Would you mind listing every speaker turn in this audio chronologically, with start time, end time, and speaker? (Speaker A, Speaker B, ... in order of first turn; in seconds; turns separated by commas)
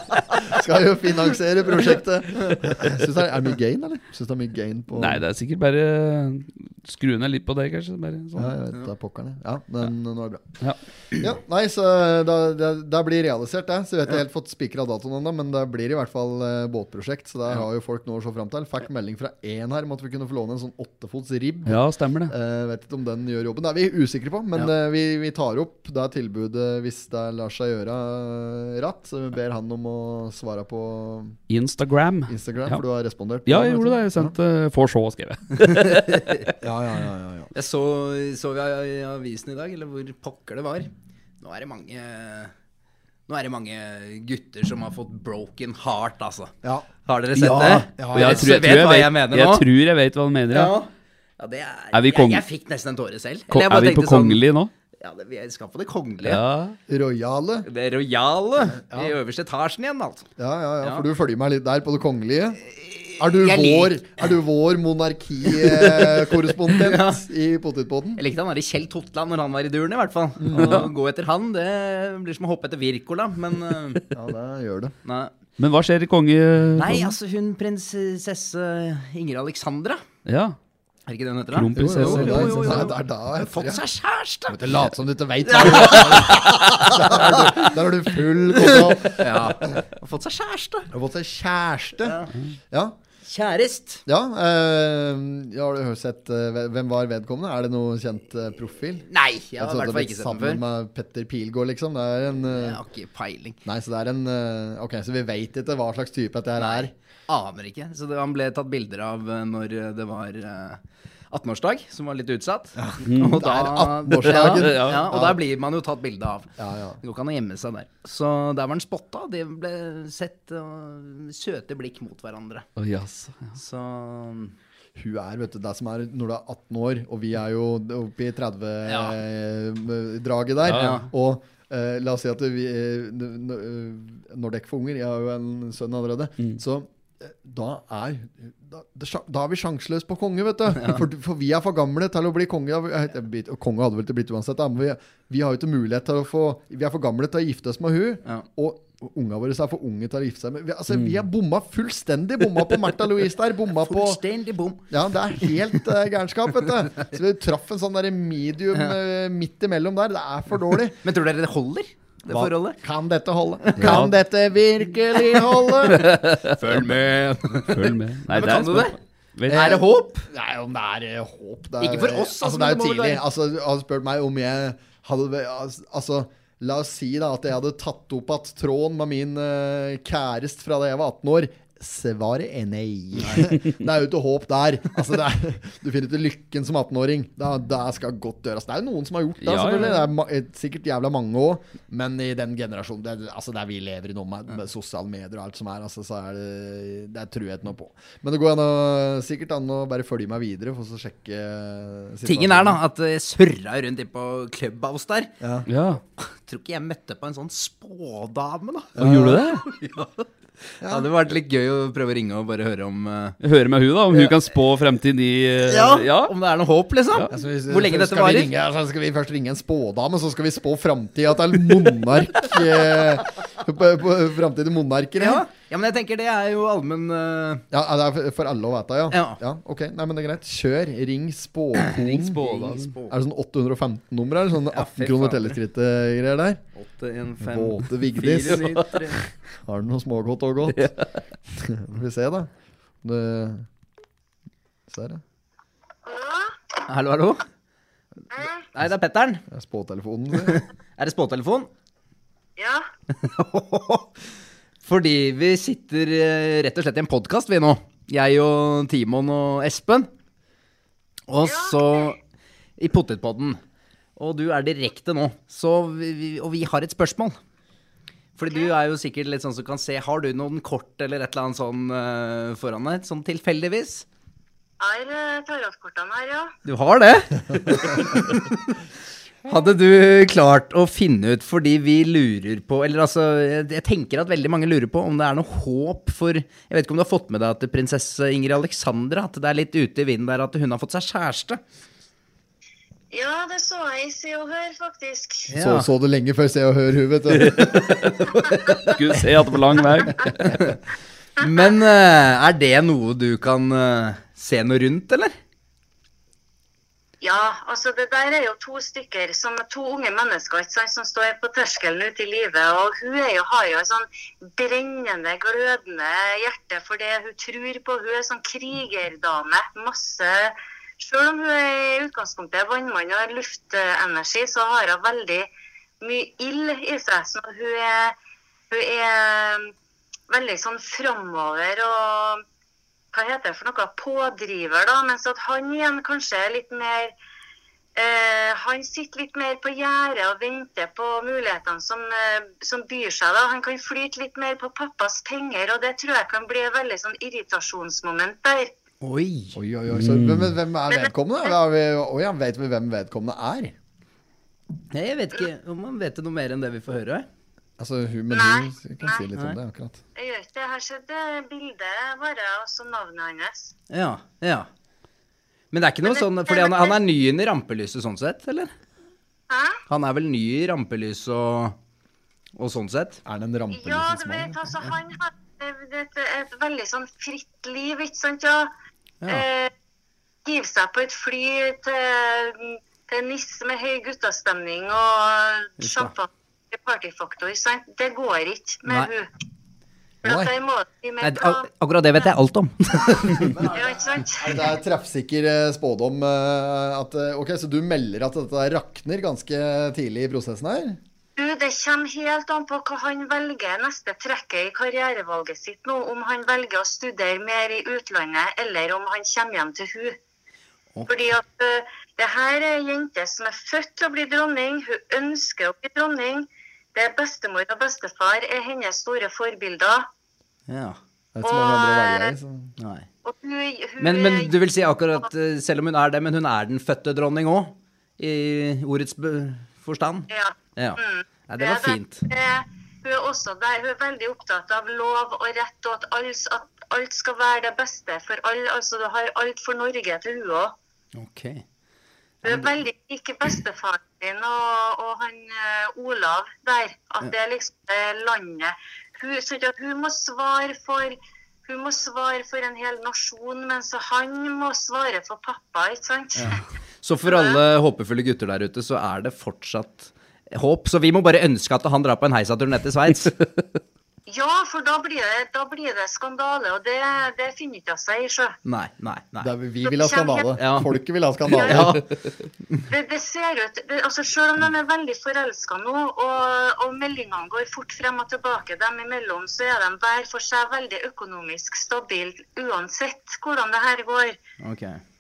Speaker A: 0.3-5.2, Speaker B: 5.0-8.5, Speaker A: 8.4-10.4, Speaker A: 11.1-31.4, Speaker B: 21.7-22.3, Speaker B: 31.5-32.8, Speaker A: 32.3-34.4, Speaker B: 33.5-36.5, Speaker C: 35.7-36.4, Speaker A: 36.6-37.5, Speaker C: 37.5-42.5, Speaker C: 43.3-46.5, Speaker A: 46.6-48.7, Speaker C: 47.0-49.7, Speaker B: 48.0-50.7, Speaker C: 50.5-54.4, Speaker B: 51.9-52.5, Speaker B: 53.5-54.7, Speaker C: 55.0-56.4, Speaker B: 56.2-56.8, Speaker A: 56.9-57.7, Speaker C: 57.6-60.3, Speaker A: 58.7-59.1, Speaker A: 60.4-62.6, Speaker C: 62.7-64.0, Speaker A: 63.2-68.2, Speaker C: 65.5-66.0, Speaker C: 66.7-67.2, Speaker C: 68.2-74.0, Speaker A: 70.4-70.9, Speaker B: 70.5-70.9, Speaker A: 74.1-75.0, Speaker C: 75.0-75.3, Speaker B: 75.6-77.2, Speaker C: 76.8-80.0, Speaker B: 80.3-80.6, Speaker C: 81.1-84.7, Speaker B: 81.5-82.9, Speaker A: 81.8-83.8, Speaker A: 84.5-89.8, Speaker C: 85.5-87.7, Speaker C: 88.6-90.9, Speaker A: 90.9-93.0, Speaker C: 92.0-92.3, Speaker C: 93.2-94.0, Speaker A: 94.1-102.8, Speaker C: 99.1-100.6, Speaker C: 102.5-103.6, Speaker A: 103.7-106.9, Speaker C: 106.6-116.5, Speaker A: 112.8-115.4, Speaker B: 113.1-113.4, Speaker B: 114.4-115.1, Speaker A: 116.6-117.0, Speaker C: 117.0-122.7, Speaker B: 122.8-123.5, Speaker C: 123.5-124.5, Speaker A: 125.0-154.2, Speaker C: 128.9-129.2, Speaker B: 130.7-131.0, Speaker C: 130.7-131.1, Speaker C: 140.8-141.1, Speaker C: 153.8-154.9, Speaker A: 154.9-161.0, Speaker C: 161.0-162.8, Speaker A: 162.3-166.1, Speaker C: 163.7-164.0, Speaker B: 163.8-164.1, Speaker C: 165.9-169.0, Speaker B: 165.9-166.5, Speaker B: 167.7-169.6, Speaker A: 169.5-202.8, Speaker C: 169.5-170.3, Speaker C: 171.8-173.2, Speaker B: 189.4-190.1, Speaker C: 202.2-205.3, Speaker A: 205.4-205.7, Speaker B: 205.7-206.0, Speaker C: 206.2-210.3, Speaker A: 209.0-209.6, Speaker B: 209.0-209.6, Speaker A: 210.8-211.1, Speaker C: 210.8-213.4, Speaker B: 213.4-216.3, Speaker C: 215.7-218.5, Speaker A: 217.3-225.5, Speaker C: 225.2-227.7, Speaker A: 227.7-236.6, Speaker C: 229.1-229.4, Speaker C: 231.8-233.2, Speaker C: 234.7-235.6, Speaker C: 236.8-239.2, Speaker A: 237.4-238.9, Speaker A: 239.6-240.9, Speaker A: 241.5-242.5, Speaker A: 243.0-243.7, Speaker A: 244.9-245.2, Speaker D: 246.1-246.6, Speaker C: 246.9-247.4, Speaker D: 248.3-248.6, Speaker C: 248.7-249.4, Speaker A: 249.5-250.6, Speaker C: 250.4-251.7, Speaker D: 252.6-252.9, Speaker C: 253.1-254.1, Speaker C: 254.8-260.1, Speaker C: 261.3-262.2, Speaker D: 261.4-262.1, Speaker C: 262.8-263.6, Speaker C: 264.2-267.4, Speaker C: 268.4-274.1, Speaker D: 268.5-268.7, Speaker D: 274.8-276.5, Speaker C: 276.6-278.7, Speaker C: 279.5-291.6, Speaker D: 293.1-295.5, Speaker C: 295.5-295.9, Speaker A: 295.6-298.0, Speaker B: 297.6-298.1, Speaker B: 298.9-300.4, Speaker C: 300.4-300.8, Speaker C: 301.4-305.4, Speaker D: 301.4-301.7, Speaker D: 307.2-325.5, Speaker D: 326.0-328.2, Speaker D: 328.7-329.7, Speaker D: 330.3-332.4, Speaker D: 333.1-337.1, Speaker D: 337.9-348.7, Speaker C: 349.0-349.6, Speaker A: 349.6-353.8, Speaker B: 349.9-350.5, Speaker D: 350.9-351.5, Speaker C: 354.9-357.3, Speaker A: 357.8-360.0, Speaker D: 358.3-359.2, Speaker D: 360.2-363.7, Speaker C: 363.9-364.7, Speaker C: 365.7-368.7, Speaker D: 366.0-367.0, Speaker D: 369.5-369.8, Speaker C: 369.9-371.8, Speaker C: 372.6-373.2, Speaker A: 373.2-374.8, Speaker D: 373.7-378.7, Speaker D: 379.3-379.7, Speaker D: 380.4-389.3, Speaker C: 385.8-386.1, Speaker C: 388.9-389.1, Speaker A: 390.2-390.5, Speaker D: 390.2-391.7, Speaker C: 391.2-393.7, Speaker D: 393.7-394.6, Speaker A: 394.4-401.0, Speaker D: 401.4-410.2, Speaker C: 411.0-411.4, Speaker D: 411.1-420.1, Speaker C: 420.7-421.0, Speaker A: 421.4-422.8, Speaker D: 421.4-422.3, Speaker C: 422.8-423.1, Speaker D: 423.2-424.6, Speaker C: 424.0-432.3, Speaker D: 430.3-440.8, Speaker C: 441.2-441.6, Speaker C: 442.4-442.8, Speaker D: 442.4-456.6, Speaker C: 456.4-463.4, Speaker D: 457.3-457.6, Speaker D: 464.3-468.6, Speaker C: 468.7-469.5, Speaker A: 469.4-472.0, Speaker D: 469.8-470.5, Speaker C: 470.6-470.9, Speaker D: 471.6-471.9, Speaker C: 471.6-472.1, Speaker D: 472.9-484.4, Speaker C: 484.6-485.0